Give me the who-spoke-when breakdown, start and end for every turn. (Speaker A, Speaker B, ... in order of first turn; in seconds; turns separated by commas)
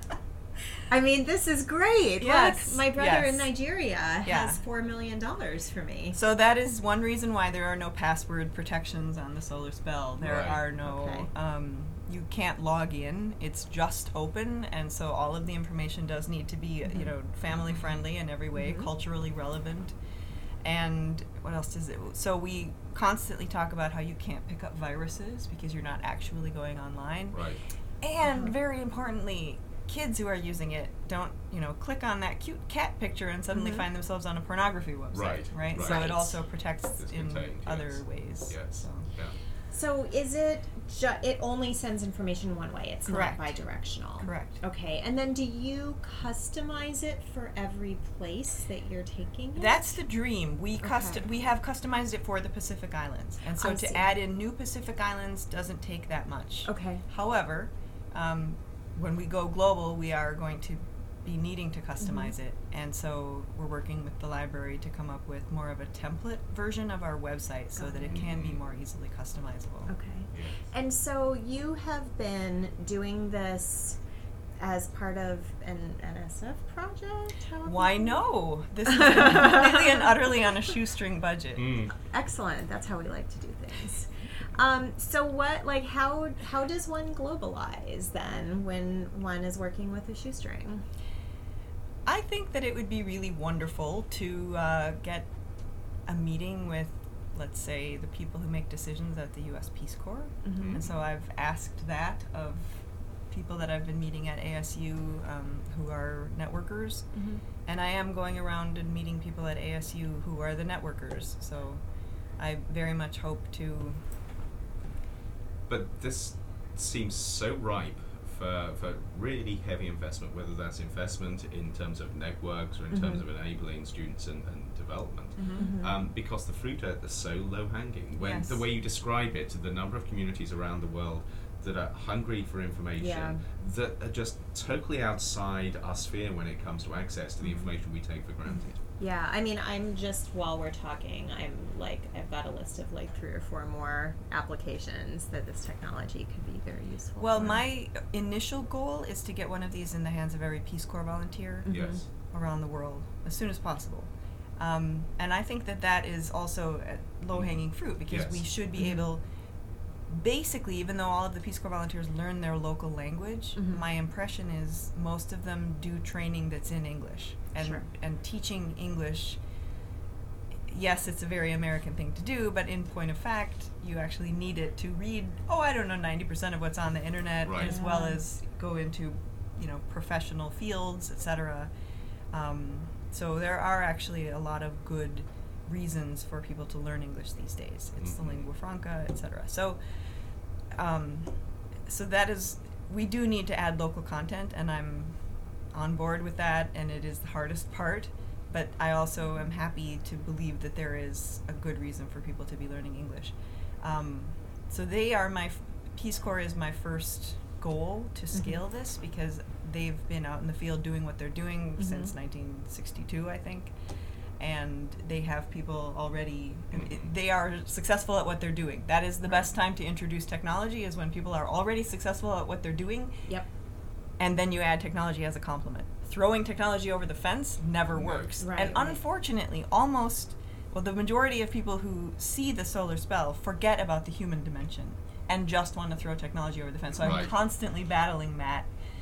Speaker A: 0.9-6.2, Speaker B: 2.2-3.5, Speaker B: 4.2-4.6, Speaker B: 6.1-19.9, Speaker C: 10.2-10.7, Speaker A: 10.8-11.3, Speaker A: 18.6-18.9, Speaker B: 20.6-27.4, Speaker C: 27.3-27.6, Speaker B: 28.0-39.1, Speaker A: 33.5-33.9, Speaker C: 35.1-36.3, Speaker A: 35.8-36.3, Speaker C: 37.0-39.4, Speaker A: 39.7-49.9, Speaker B: 43.1-43.5, Speaker B: 44.2-44.6, Speaker B: 49.6-69.9, Speaker A: 50.8-51.2, Speaker A: 53.6-54.1, Speaker A: 56.6-57.0, Speaker A: 62.0-62.3, Speaker A: 67.8-68.2, Speaker C: 68.1-68.6, Speaker A: 69.9-74.0, Speaker C: 70.3-70.7, Speaker A: 74.6-78.2, Speaker B: 77.7-81.8, Speaker A: 78.9-80.1, Speaker C: 81.6-81.9, Speaker A: 82.0-90.8, Speaker B: 92.1-95.3, Speaker B: 96.1-107.1, Speaker A: 100.4-100.8, Speaker C: 100.6-100.9, Speaker A: 107.1-107.4, Speaker B: 107.7-111.8, Speaker B: 112.4-114.0, Speaker C: 115.7-138.8, Speaker A: 122.9-123.2, Speaker B: 125.4-125.7, Speaker A: 125.6-126.0, Speaker B: 128.2-128.6, Speaker A: 133.0-133.4, Speaker A: 137.4-137.7, Speaker A: 139.0-147.6, Speaker B: 147.2-151.7, Speaker A: 151.7-152.0, Speaker C: 151.7-152.1, Speaker B: 152.3-159.2, Speaker C: 157.3-158.5, Speaker A: 158.8-159.1, Speaker B: 160.1-169.4, Speaker A: 163.6-163.8, Speaker A: 167.6-167.9, Speaker B: 170.7-181.7, Speaker C: 177.4-177.8, Speaker A: 177.6-178.2, Speaker B: 182.3-189.8, Speaker C: 188.0-188.5, Speaker B: 190.8-195.2, Speaker B: 195.7-213.7, Speaker A: 208.3-208.6, Speaker A: 211.8-212.1, Speaker B: 214.4-223.3, Speaker C: 216.7-217.1, Speaker B: 224.2-238.7, Speaker C: 227.9-228.5, Speaker A: 228.4-229.0, Speaker C: 237.0-237.3